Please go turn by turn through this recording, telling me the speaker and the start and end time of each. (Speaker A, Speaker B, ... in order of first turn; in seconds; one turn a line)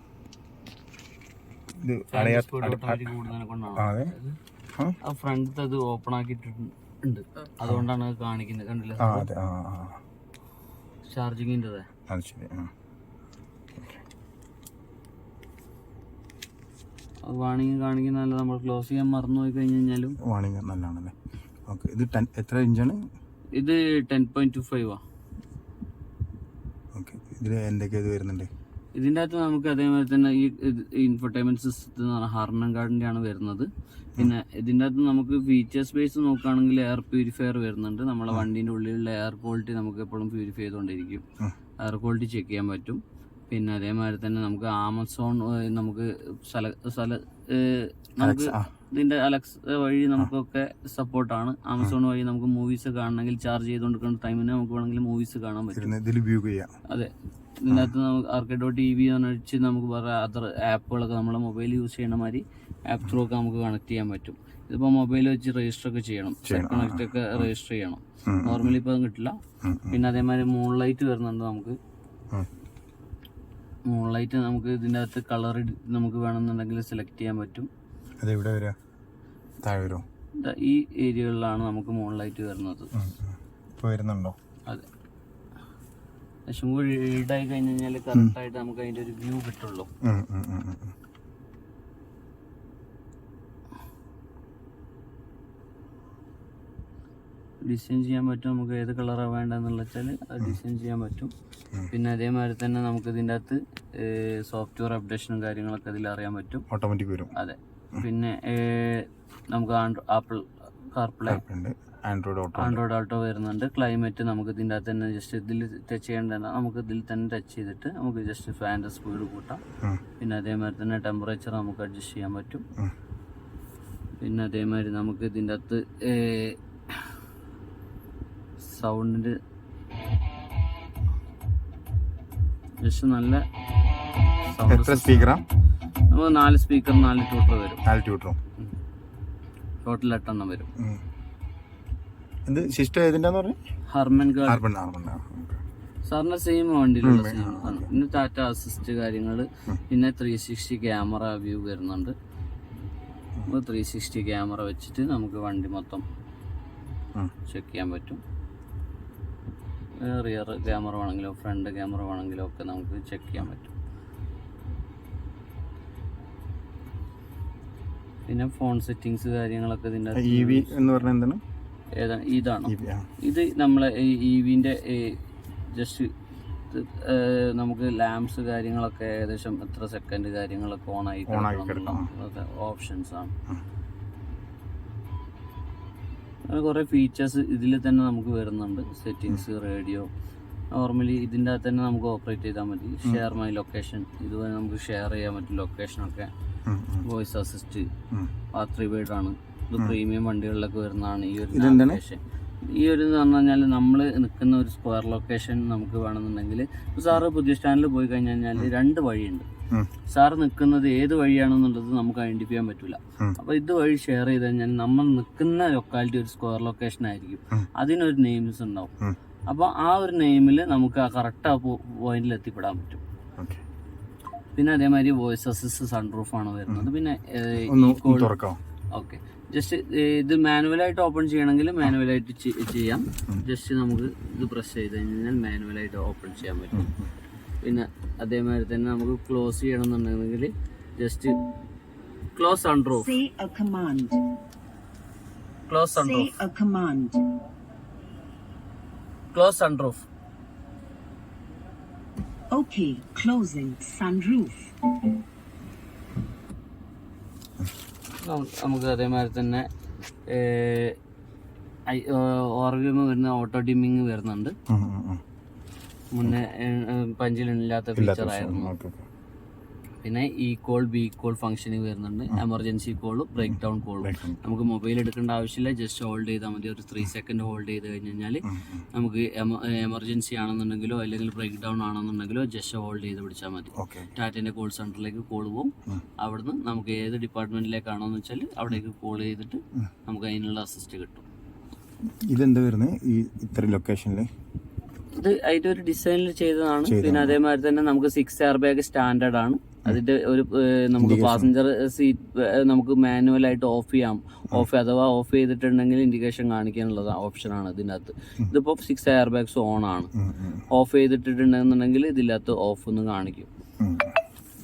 Speaker A: 1.8-3.2
Speaker B: 2.1-4.4
Speaker A: 3.8-4.1
Speaker B: 5.0-9.3
Speaker A: 9.0-10.0
Speaker B: 11.1-11.9
Speaker A: 12.1-12.7
Speaker A: 13.7-14.0
Speaker B: 17.2-20.2
Speaker A: 20.2-21.1
Speaker A: 21.7-23.0
Speaker B: 23.6-25.0
Speaker A: 26.9-28.5
Speaker B: 28.9-41.2
Speaker B: 41.8-55.9
Speaker A: 48.2-48.7
Speaker A: 55.7-56.7
Speaker B: 56.9-69.4
Speaker A: 66.5-67.5
Speaker A: 68.3-68.8
Speaker A: 69.6-70.0
Speaker B: 69.9-71.8
Speaker B: 73.9-77.7
Speaker A: 78.2-78.8
Speaker A: 79.6-80.0
Speaker B: 80.4-82.9
Speaker A: 82.9-84.4
Speaker B: 86.5-89.9
Speaker A: 90.0-91.0
Speaker B: 97.7-101.3
Speaker B: 101.9-106.6
Speaker A: 106.7-107.3
Speaker B: 107.3-111.4
Speaker A: 111.3-112.8
Speaker B: 112.6-119.6
Speaker B: 120.2-122.6
Speaker B: 124.2-127.1
Speaker B: 128.6-129.4
Speaker B: 132.8-133.4
Speaker B: 134.5-135.4
Speaker A: 134.7-135.5
Speaker B: 136.1-137.8
Speaker A: 137.8-138.4
Speaker B: 139.8-140.7
Speaker A: 140.8-141.0
Speaker A: 142.5-143.6
Speaker B: 143.9-144.6
Speaker A: 144.4-145.6
Speaker B: 146.0-152.1
Speaker A: 147.0-147.9
Speaker B: 153.5-156.0
Speaker B: 157.5-158.2
Speaker B: 160.0-163.7
Speaker B: 168.3-170.9
Speaker A: 170.2-171.4
Speaker B: 172.0-176.1
Speaker A: 172.7-173.1
Speaker B: 176.7-183.3
Speaker A: 181.3-182.1
Speaker B: 186.5-190.1
Speaker B: 190.7-196.3
Speaker A: 196.7-197.1
Speaker B: 197.0-197.9
Speaker B: 198.5-209.5
Speaker A: 201.5-202.0
Speaker B: 210.1-218.9
Speaker B: 219.5-223.0
Speaker B: 224.6-228.4
Speaker A: 227.6-228.6
Speaker B: 228.9-236.9
Speaker A: 236.7-237.1
Speaker B: 237.6-241.4
Speaker B: 242.3-243.1
Speaker C: 242.9-244.2
Speaker B: 245.7-246.3
Speaker C: 246.0-247.2
Speaker B: 249.3-250.1
Speaker C: 252.5-254.8
Speaker B: 258.2-259.7
Speaker B: 260.3-261.0
Speaker B: 261.9-264.6
Speaker A: 264.7-265.2
Speaker B: 266.1-268.7
Speaker A: 268.0-269.0
Speaker B: 270.0-291.2
Speaker A: 274.0-274.4
Speaker A: 278.4-278.9
Speaker A: 283.8-284.1
Speaker A: 292.1-294.3
Speaker B: 295.1-310.1
Speaker A: 296.9-297.4
Speaker A: 300.9-301.5
Speaker A: 310.2-310.6
Speaker B: 310.7-313.5
Speaker A: 313.8-314.2